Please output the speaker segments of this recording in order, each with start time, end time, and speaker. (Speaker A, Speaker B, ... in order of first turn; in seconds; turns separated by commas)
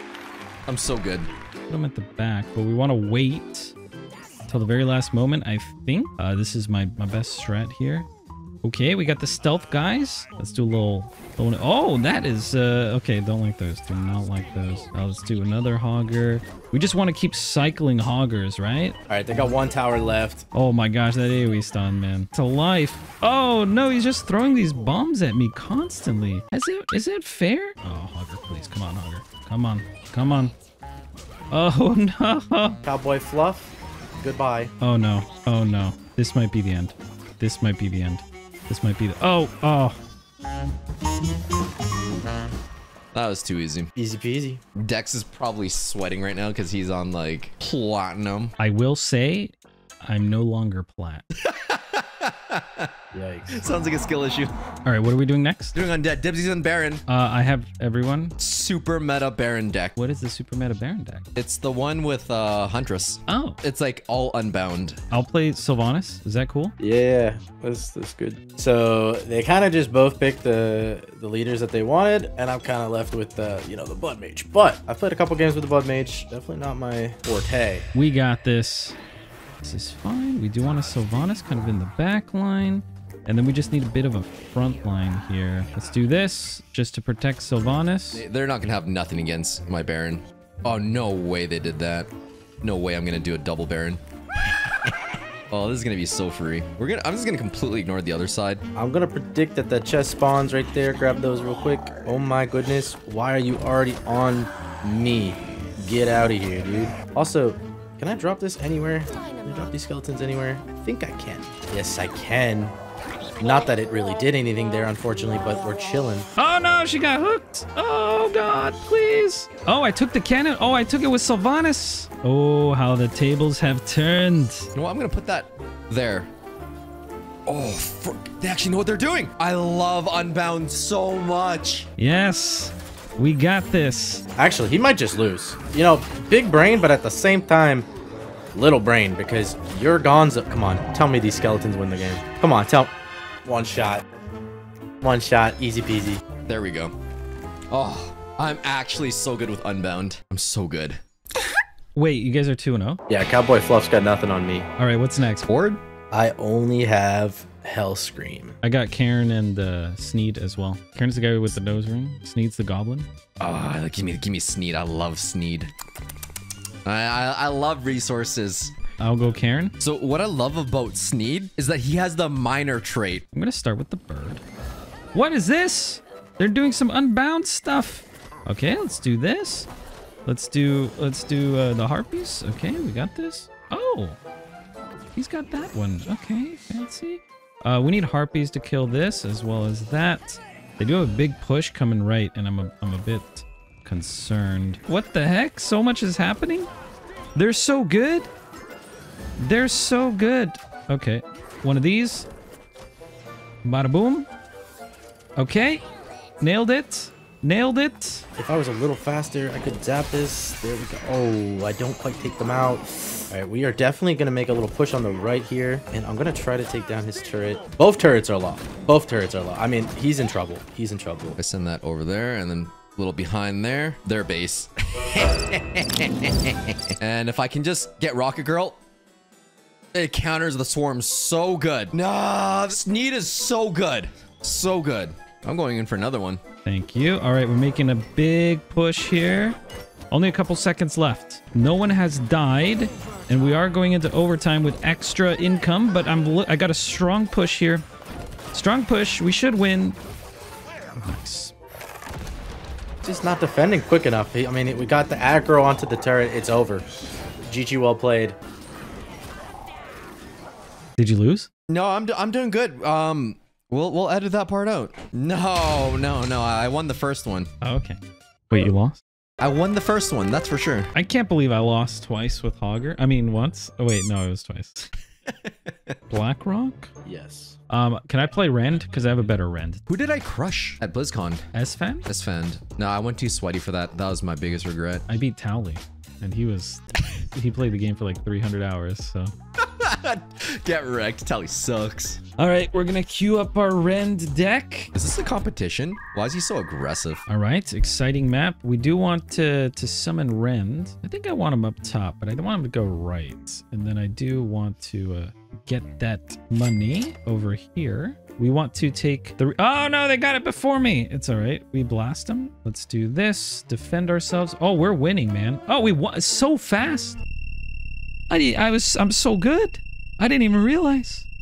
Speaker A: 0.7-1.3, Speaker B: 1.7-3.7, Speaker B: 4.5-8.1, Speaker B: 8.6-19.0, Speaker C: 19.1-20.4, Speaker B: 20.5-30.5, Speaker B: 31.5-32.8, Speaker C: 32.8-34.7, Speaker B: 34.8-40.0, Speaker A: 43.1-43.9, Speaker C: 44.0-44.6, Speaker A: 44.8-48.5, Speaker B: 48.6-51.2, Speaker A: 51.4-52.9, Speaker C: 53.1-53.6, Speaker A: 53.5-54.5, Speaker B: 54.8-55.7, Speaker A: 55.7-57.0, Speaker B: 57.1-58.4, Speaker A: 58.4-60.0, Speaker B: 60.0-61.2, Speaker A: 61.4-65.0, Speaker B: 63.3-63.6, Speaker B: 65.1-66.7, Speaker C: 66.8-77.8, Speaker B: 77.9-79.0, Speaker B: 79.6-88.2, Speaker A: 88.1-92.1, Speaker A: 92.6-94.0, Speaker A: 95.5-98.6, Speaker C: 98.7-112.7, Speaker C: 113.4-116.3, Speaker B: 116.4-124.7, Speaker A: 124.7-126.3, Speaker A: 127.5-131.9, Speaker B: 132.0-134.2, Speaker C: 134.3-137.9, Speaker C: 138.5-142.9, Speaker C: 143.4-144.0, Speaker C: 145.0-146.2, Speaker A: 146.5-146.9, Speaker A: 147.7-151.0, Speaker B: 151.9-153.0, Speaker C: 153.1-154.7, Speaker B: 154.8-155.5, Speaker A: 155.4-155.8, Speaker C: 156.1-158.6, Speaker B: 158.6-163.1, Speaker A: 163.4-165.7, Speaker A: 166.8-168.7, Speaker B: 169.0-169.7, Speaker A: 169.8-173.2, Speaker B: 173.3-174.4, Speaker B: 175.1-179.7, Speaker B: 180.2-184.2, Speaker B: 185.2-196.7, Speaker B: 197.3-198.3, Speaker B: 199.4-202.3, Speaker B: 203.6-204.3, Speaker B: 205.4-205.8, Speaker B: 206.4-208.2, Speaker C: 208.4-221.4, Speaker A: 221.4-228.8, Speaker A: 229.9-236.4, Speaker B: 236.7-239.6, Speaker B: 240.1-247.8, Speaker B: 248.5-250.0, Speaker B: 251.0-251.5, Speaker C: 253.0-256.9, Speaker C: 257.4-258.4, Speaker B: 261.0-261.5, Speaker A: 261.7-267.5, Speaker B: 267.6-268.0, Speaker B: 268.5-269.0, Speaker A: 269.4-270.9, Speaker B: 270.9-274.9, Speaker A: 275.3-275.9, Speaker B: 276.1-276.9, Speaker C: 277.0-277.6, Speaker B: 277.7-279.8, Speaker A: 279.9-281.4, Speaker B: 281.5-282.1, Speaker A: 282.1-285.0, Speaker B: 285.1-289.3, Speaker A: 289.6-292.2, Speaker B: 292.4-294.9, Speaker A: 294.9-297.2, Speaker B: 297.3-317.2, Speaker B: 318.3-321.2